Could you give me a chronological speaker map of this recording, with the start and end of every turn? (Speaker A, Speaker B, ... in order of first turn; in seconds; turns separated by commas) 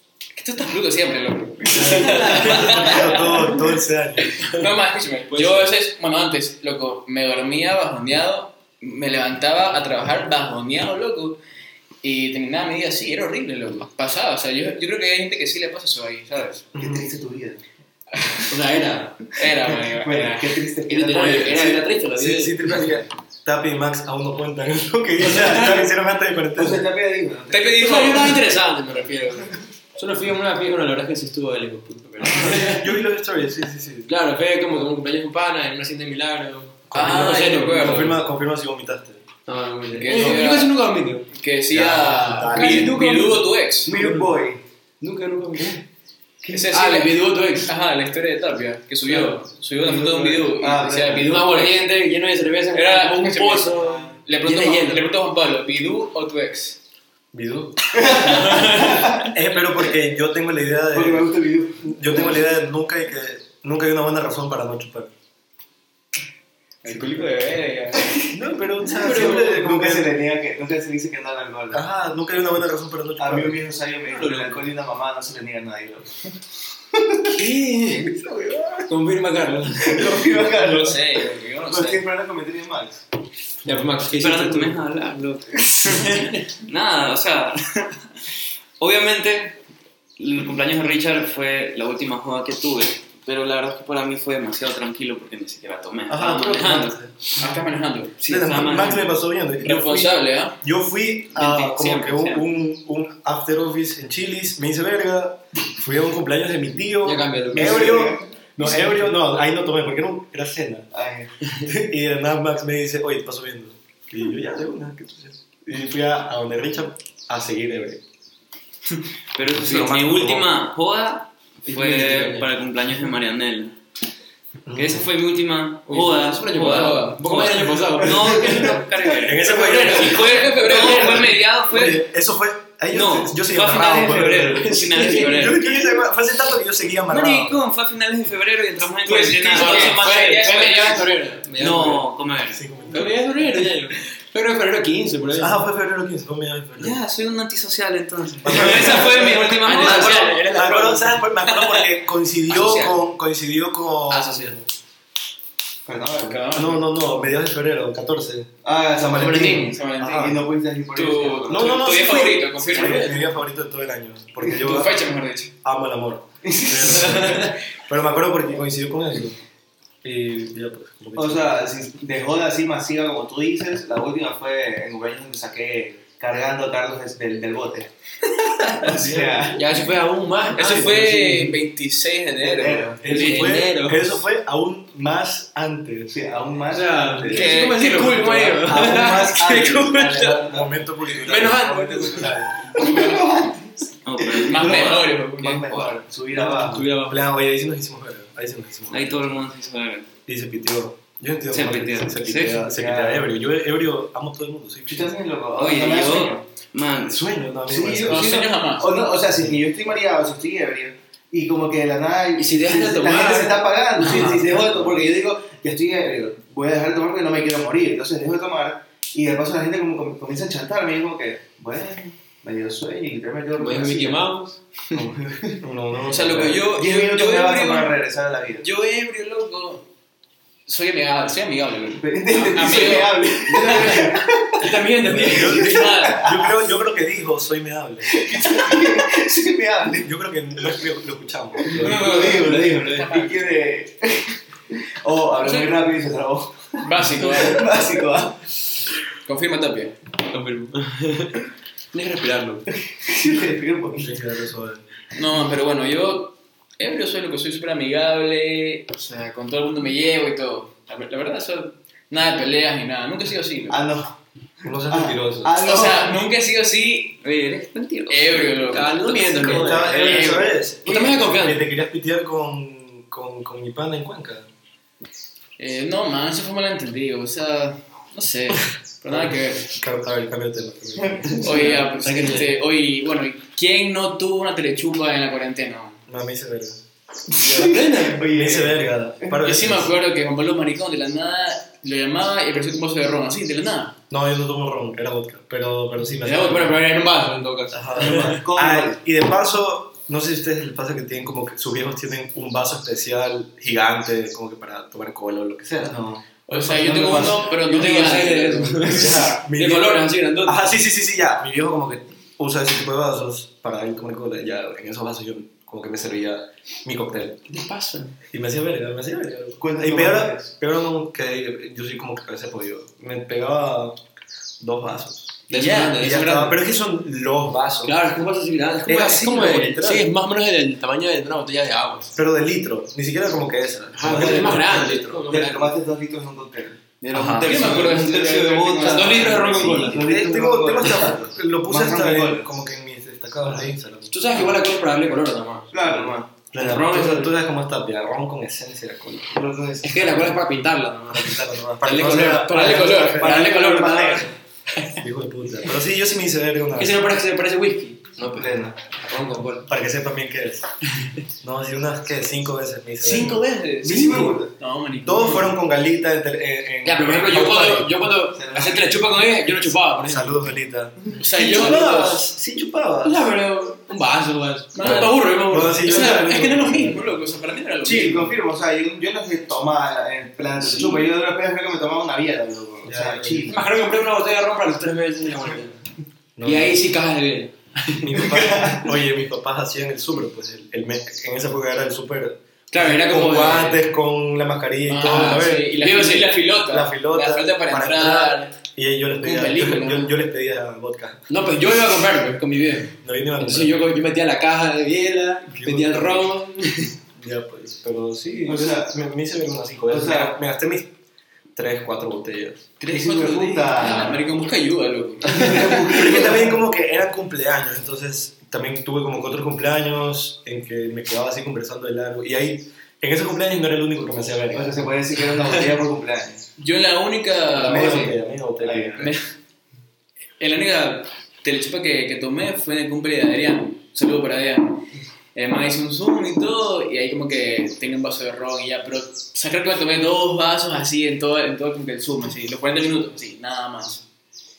Speaker A: 0.3-3.3, Speaker B: 1.7-3.3, Speaker C: 1.7-4.4, Speaker A: 4.2-11.4, Speaker B: 5.3-5.7, Speaker A: 12.0-16.7, Speaker C: 16.7-17.1, Speaker D: 16.8-17.6, Speaker B: 18.5-19.2, Speaker A: 19.3-20.6, Speaker D: 19.5-21.9, Speaker B: 20.9-22.9, Speaker A: 21.1-21.6, Speaker C: 22.1-26.8, Speaker D: 25.2-25.9, Speaker B: 25.3-25.7, Speaker D: 26.6-28.3, Speaker A: 27.5-28.5, Speaker B: 27.7-33.0, Speaker C: 32.2-34.1, Speaker B: 34.1-38.2, Speaker C: 36.9-39.3, Speaker A: 36.9-38.1, Speaker B: 39.5-41.3, Speaker A: 39.9-40.8, Speaker C: 40.1-40.4, Speaker A: 41.3-43.9, Speaker C: 41.7-43.0, Speaker B: 42.2-44.3, Speaker D: 43.8-44.6, Speaker B: 45.0-45.8, Speaker A: 46.5-51.9, Speaker B: 46.5-47.7, Speaker D: 49.1-51.3, Speaker B: 51.0-55.1, Speaker A: 52.7-56.8, Speaker C: 57.3-61.3, Speaker D: 57.9-59.3, Speaker A: 58.0-59.0, Speaker D: 60.9-62.5, Speaker C: 61.9-65.1, Speaker A: 66.8-68.2, Speaker C: 68.3-70.1, Speaker D: 68.9-71.8, Speaker B: 68.9-69.5, Speaker C: 71.7-73.6, Speaker D: 73.2-76.2, Speaker B: 74.2-74.5, Speaker C: 74.2-74.5, Speaker D: 76.9-77.4, Speaker B: 77.4-78.2, Speaker D: 78.2-78.8, Speaker B: 78.9-80.4, Speaker D: 79.8-83.0, Speaker A: 80.6-82.0, Speaker B: 83.6-84.8, Speaker E: 84.2-88.0, Speaker D: 85.6-86.0, Speaker B: 85.9-86.3, Speaker E: 88.8-89.6, Speaker E: 90.2-97.0, Speaker C: 96.1-97.1, Speaker A: 97.3-98.2, Speaker C: 98.2-110.9, Speaker E: 98.2-99.2, Speaker A: 99.6-100.6, Speaker A: 101.4-102.4, Speaker E: 101.4-102.2, Speaker B: 107.0-108.0, Speaker D: 107.5-108.3, Speaker D: 110.9-111.3, Speaker C: 111.6-118.0, Speaker E: 119.3-123.7, Speaker C: 119.5-120.5, Speaker B: 121.7-122.5, Speaker C: 124.7-125.0, Speaker E: 124.7-132.0, Speaker B: 125.9-128.8, Speaker D: 128.1-128.8, Speaker C: 129.2-137.6, Speaker B: 129.4-131.4, Speaker E: 132.9-135.8, Speaker B: 134.4-135.6, Speaker E: 137.1-141.0, Speaker B: 139.0-142.1, Speaker A: 139.5-141.1, Speaker E: 141.6-142.6, Speaker C: 142.5-143.2, Speaker B: 142.9-145.6, Speaker C: 145.3-147.0, Speaker E: 146.8-150.3, Speaker C: 148.4-154.5, Speaker B: 148.5-151.2, Speaker A: 149.7-150.3, Speaker A: 151.5-151.9, Speaker A: 152.5-153.0, Speaker E: 154.1-154.5, Speaker D: 155.8-156.5, Speaker A: 156.2-157.3, Speaker C: 156.5-160.4, Speaker D: 158.6-161.8, Speaker A: 159.1-160.4, Speaker A: 160.9-163.2, Speaker C: 161.5-164.9, Speaker D: 162.7-163.2, Speaker A: 164.4-165.5, Speaker C: 165.6-169.4, Speaker D: 166.4-167.5, Speaker B: 167.1-167.4, Speaker C: 170.0-171.6, Speaker D: 171.2-177.9, Speaker D: 178.7-179.7, Speaker B: 179.3-181.6, Speaker A: 180.5-183.4, Speaker C: 180.6-181.0, Speaker D: 182.4-183.3, Speaker C: 183.0-186.2, Speaker B: 183.1-184.2, Speaker D: 186.1-187.6, Speaker B: 186.7-190.5, Speaker A: 187.2-188.7, Speaker C: 188.6-192.5, Speaker D: 188.7-190.7, Speaker B: 191.1-192.4, Speaker D: 192.1-196.9, Speaker A: 192.7-193.4, Speaker E: 194.0-195.0, Speaker A: 194.4-196.0, Speaker B: 196.3-197.2, Speaker C: 197.0-199.2, Speaker E: 198.9-200.1, Speaker C: 200.2-205.1, Speaker E: 201.5-202.6, Speaker D: 202.4-203.3, Speaker D: 204.9-206.4, Speaker E: 205.5-207.2, Speaker C: 207.1-208.3, Speaker D: 207.7-224.3, Speaker A: 208.0-208.9, Speaker B: 212.4-214.8, Speaker A: 214.0-214.6, Speaker B: 223.6-225.0, Speaker C: 224.9-226.6, Speaker D: 225.0-225.6, Speaker A: 226.1-227.9, Speaker D: 226.7-228.7, Speaker A: 228.6-229.8, Speaker A: 230.7-234.1, Speaker D: 232.0-234.8, Speaker B: 233.5-235.8, Speaker C: 235.0-238.8, Speaker A: 235.1-236.2, Speaker D: 235.8-236.5, Speaker D: 238.1-240.1, Speaker C: 240.0-242.3, Speaker B: 241.7-242.7, Speaker D: 241.8-248.4, Speaker A: 242.0-243.6, Speaker A: 245.4-245.7, Speaker A: 246.8-247.9, Speaker A: 249.2-250.0, Speaker B: 250.3-251.3, Speaker B: 251.9-252.7, Speaker D: 252.9-254.2, Speaker C: 253.9-254.8, Speaker A: 255.1-263.8, Speaker D: 263.7-264.1, Speaker C: 264.6-265.5, Speaker D: 264.9-266.2, Speaker A: 265.6-267.2, Speaker E: 267.2-268.9, Speaker A: 268.1-270.6, Speaker B: 268.6-271.6, Speaker C: 269.4-274.5, Speaker A: 275.6-279.7, Speaker C: 279.1-281.8, Speaker D: 281.0-281.3, Speaker A: 281.4-286.0, Speaker B: 281.4-282.5, Speaker C: 286.1-286.8, Speaker D: 287.3-289.3, Speaker B: 287.4-288.3, Speaker C: 288.3-289.9, Speaker A: 289.4-293.9, Speaker C: 294.1-296.8, Speaker B: 296.2-298.0, Speaker C: 297.7-306.0, Speaker D: 297.9-299.0, Speaker D: 305.8-307.4, Speaker A: 306.5-309.3, Speaker B: 306.7-310.6, Speaker C: 308.8-317.5, Speaker B: 317.5-318.1, Speaker C: 318.3-324.0, Speaker D: 319.6-320.5, Speaker C: 324.6-325.4, Speaker B: 325.5-326.6, Speaker A: 325.5-326.3, Speaker C: 325.9-327.9, Speaker B: 327.8-332.1, Speaker C: 328.8-330.1, Speaker C: 332.1-335.2, Speaker B: 333.9-335.7, Speaker D: 334.0-336.8, Speaker E: 337.0-339.9, Speaker C: 337.1-337.8, Speaker A: 337.4-339.8, Speaker B: 338.8-340.1, Speaker D: 339.9-342.5, Speaker C: 339.9-344.2, Speaker B: 344.1-347.3, Speaker D: 345.7-346.3, Speaker C: 346.5-349.4, Speaker D: 349.3-350.3, Speaker B: 349.8-354.3, Speaker C: 351.1-354.2, Speaker A: 352.3-353.9, Speaker D: 353.3-353.9, Speaker C: 355.0-357.1, Speaker B: 356.7-359.7, Speaker D: 358.2-358.8, Speaker C: 359.6-360.7, Speaker C: 361.4-363.4, Speaker A: 363.0-365.5, Speaker D: 363.8-364.5, Speaker B: 363.9-364.3, Speaker C: 365.0-368.1, Speaker B: 366.8-370.4, Speaker D: 368.3-369.3, Speaker C: 370.0-373.3, Speaker A: 371.1-372.2, Speaker B: 371.4-372.0, Speaker B: 373.0-376.3, Speaker A: 374.7-378.4, Speaker C: 374.8-377.0, Speaker D: 377.8-383.6, Speaker B: 380.7-381.0, Speaker C: 382.8-383.6, Speaker B: 383.4-385.8, Speaker C: 386.4-386.8, Speaker B: 386.4-388.3, Speaker C: 388.0-401.2, Speaker D: 388.2-388.9, Speaker B: 392.7-393.8, Speaker A: 394.9-398.5, Speaker B: 395.1-396.3, Speaker A: 399.2-400.1, Speaker B: 401.3-406.9, Speaker C: 403.0-404.0, Speaker C: 405.5-406.3, Speaker C: 407.1-410.9, Speaker D: 408.5-408.9, Speaker D: 409.9-410.4, Speaker C: 411.5-412.6, Speaker A: 412.8-415.9, Speaker D: 412.9-414.2, Speaker D: 415.2-416.6, Speaker C: 415.3-424.8, Speaker D: 424.5-426.4, Speaker A: 426.6-428.2, Speaker C: 427.5-429.1, Speaker D: 428.6-429.1, Speaker A: 429.0-429.3, Speaker A: 430.4-444.0